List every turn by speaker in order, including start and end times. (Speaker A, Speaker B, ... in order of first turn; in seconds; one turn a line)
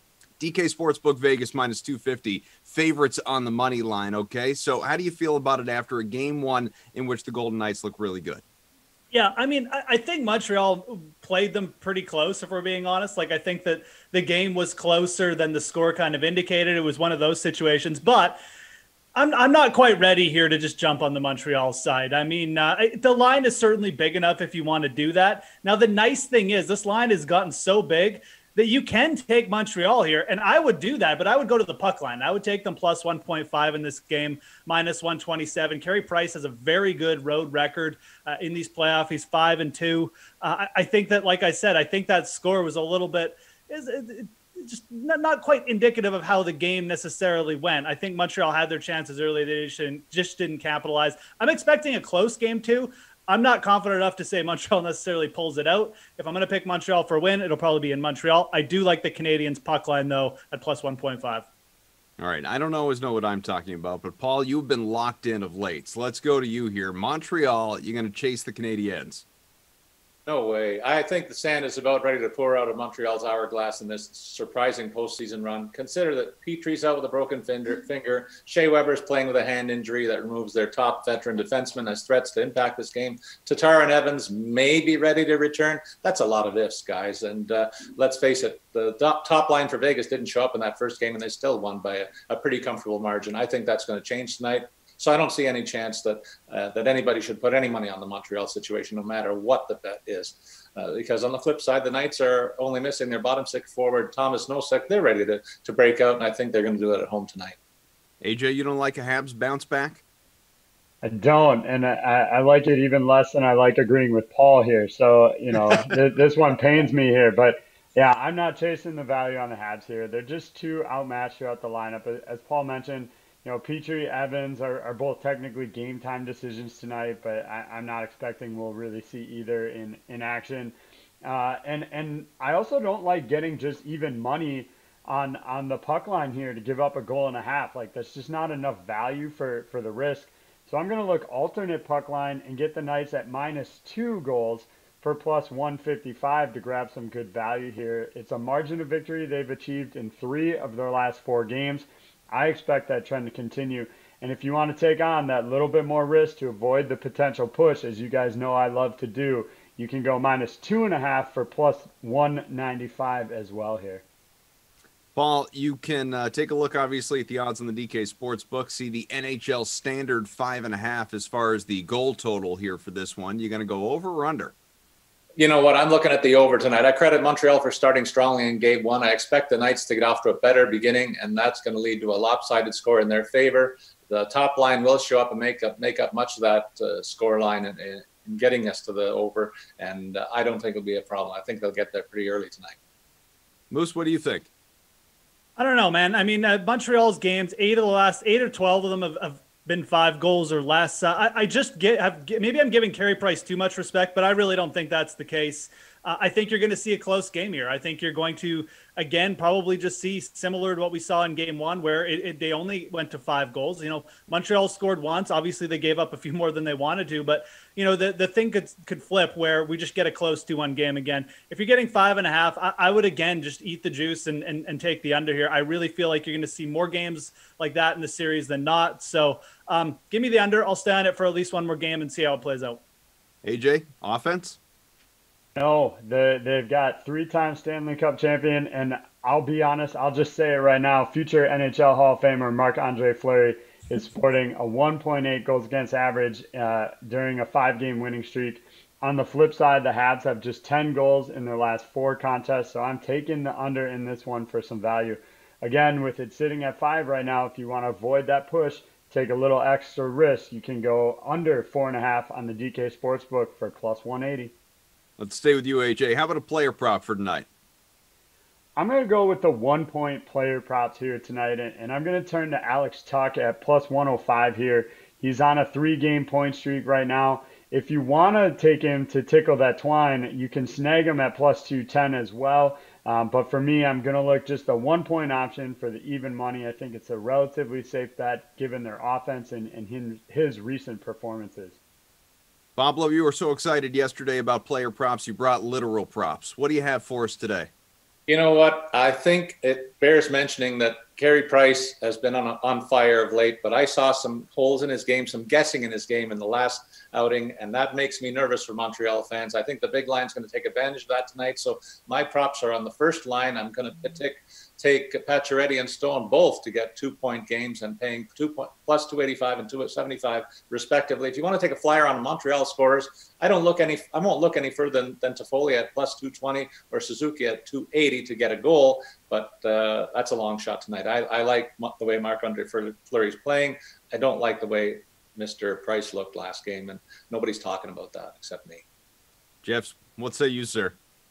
Speaker A: 0.4-8.4
Speaker B: 9.1-18.4
Speaker B: 19.1-61.5
Speaker A: 62.2-69.2
Speaker C: 70.3-107.5
Speaker A: 108.2-110.0
Speaker D: 111.0-164.0
Speaker A: 165.2-174.5
Speaker C: 175.4-192.8
Speaker A: 193.7-194.5
Speaker B: 195.6-232.8
Speaker A: 233.4-234.6
Speaker D: 235.6-264.5
Speaker A: 265.2-267.5
Speaker D: 268.8-291.8
Speaker A: 292.8-297.7
Speaker C: 298.3-338.8
Speaker A: 339.6-341.0